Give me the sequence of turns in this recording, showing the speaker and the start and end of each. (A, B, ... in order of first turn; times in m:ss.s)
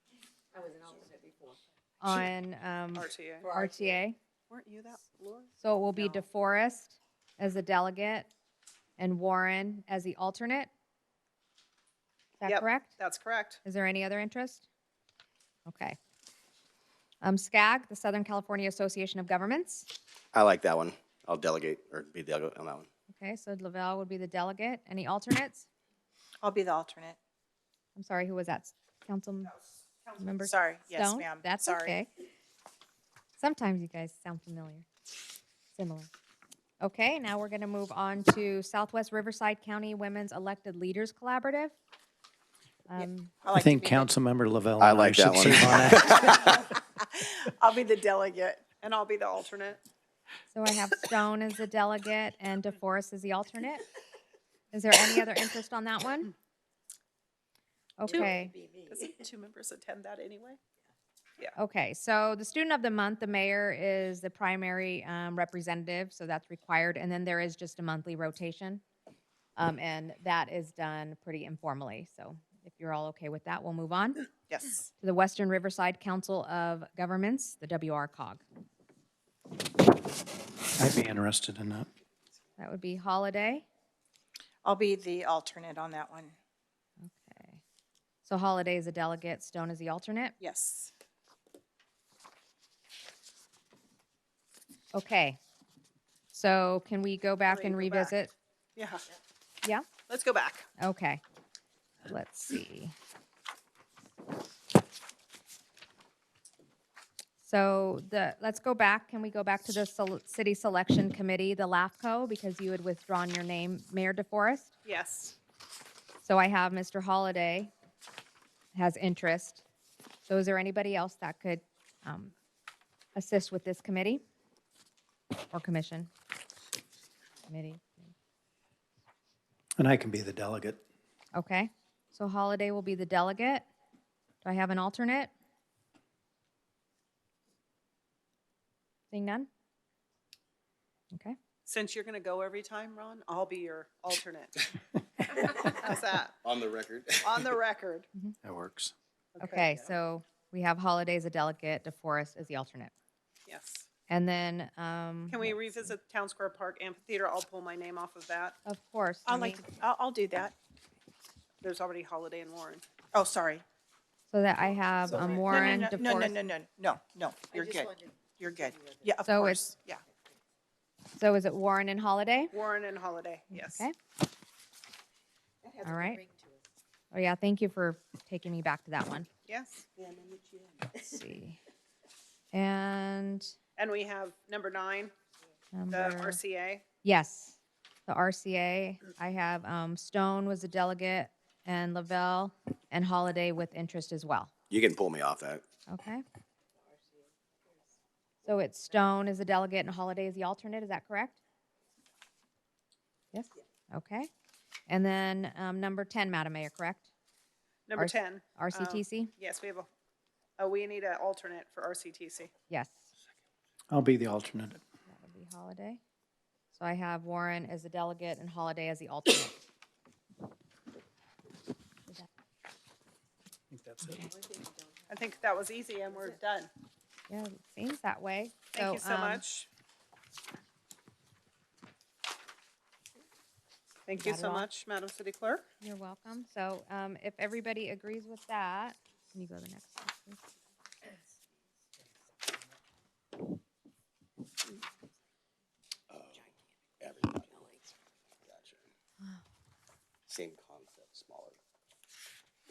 0:00.5-0:01.6 A
0:02.0-0:04.2 B
0:03.0-0:03.5 C
0:03.4-0:04.0 A
0:04.5-0:06.3 C
0:05.6-0:08.3 B
0:09.0-0:10.7 B
0:12.4-0:13.0 B
0:12.5-0:13.6 C
0:13.6-0:14.7 B
0:15.7-0:16.0 B
0:17.2-0:19.9 B
0:20.3-0:22.9 D
0:23.1-0:25.7 B
0:26.4-0:27.2 E
0:28.0-0:29.6 B
0:30.2-0:32.1 B
0:30.4-0:32.0 E
0:33.4-0:34.9 B
0:35.8-0:36.1 B
0:36.8-0:41.8 B
0:42.9-0:43.3 B
0:43.0-0:44.1 E
0:43.5-0:46.2 F
0:44.8-0:46.5 D
0:46.2-0:48.7 E
0:48.8-0:49.8 C
0:50.5-0:53.9 B
0:54.7-0:56.3 B
0:58.0-0:58.6 B
0:58.1-0:59.2 A
0:58.9-1:00.6 C
1:01.6-1:08.8 B
1:09.6-1:14.3 B
1:14.5-1:14.8 E
1:15.0-1:18.4 B
1:20.8-1:21.9 F
1:22.6-1:23.7 B
1:24.6-1:26.4 E
1:27.0-1:27.6 B
1:28.2-1:30.3 B
1:30.4-1:30.9 C
1:34.9-1:35.4 B
1:36.3-1:38.3 B
1:37.5-1:38.1 C
1:38.8-1:39.0 C
1:40.1-1:40.7 C
1:40.8-1:41.2 B
1:42.0-1:42.9 B
1:47.4-1:54.7 B
1:54.8-1:55.4 C
1:56.2-1:57.7 B
1:58.7-1:59.6 B
2:00.3-2:02.3 B
2:03.2-2:04.2 B
2:05.5-2:06.1 B
2:07.5-2:08.1 B
2:09.8-2:10.8 F
2:11.3-2:13.7 B
2:14.4-2:15.3 B
2:19.1-2:19.5 B
2:21.7-2:24.6 C
2:25.6-2:26.4 C
2:26.4-2:27.4 D
2:27.2-2:28.1 C
2:28.4-2:28.9 F
2:29.4-2:29.9 C
2:29.4-2:32.9 B
2:33.5-2:33.9 C
2:34.1-2:35.9 B
2:35.3-2:38.6 C
2:38.6-2:39.6 B
2:39.3-2:40.6 E
2:41.6-2:42.8 C
2:43.1-2:43.6 E
2:44.3-2:46.4 B
2:45.3-2:45.9 A
2:45.4-2:50.0 E
2:47.5-2:49.2 A
2:49.3-2:49.6 B
2:51.2-2:52.5 B
2:52.5-2:53.8 C
2:53.5-2:53.9 B
2:55.6-2:56.6 A
2:55.8-2:56.2 B
2:57.1-2:59.3 B
2:59.5-2:59.9 C
3:00.0-3:01.0 A
3:01.0-3:01.6 B
3:02.5-3:03.5 B
3:03.8-3:05.1 C
3:05.7-3:06.4 B
3:05.9-3:06.8 C
3:07.0-3:14.5 B
3:14.7-3:15.6 D
3:15.9-3:16.2 B
3:16.9-3:17.8 A
3:18.4-3:21.4 B
3:23.3-3:24.3 B
3:24.9-3:27.1 B
3:27.9-3:29.9 C
3:28.0-3:29.3 B
3:30.6-3:32.5 C
3:32.7-3:33.1 B
3:33.9-3:34.8 F
3:35.1-3:36.0 B
3:36.7-3:39.6 B
3:43.7-3:44.2 F
3:44.2-3:46.4 A
3:45.1-3:46.7 C
3:47.3-3:49.4 B
3:48.7-3:49.7 C
3:54.1-3:55.6 C
3:54.2-3:54.7 B
3:55.8-4:00.4 B
4:06.1-4:06.5 D
4:07.0-4:07.7 D
4:08.5-4:08.8 D
4:10.3-4:11.6 D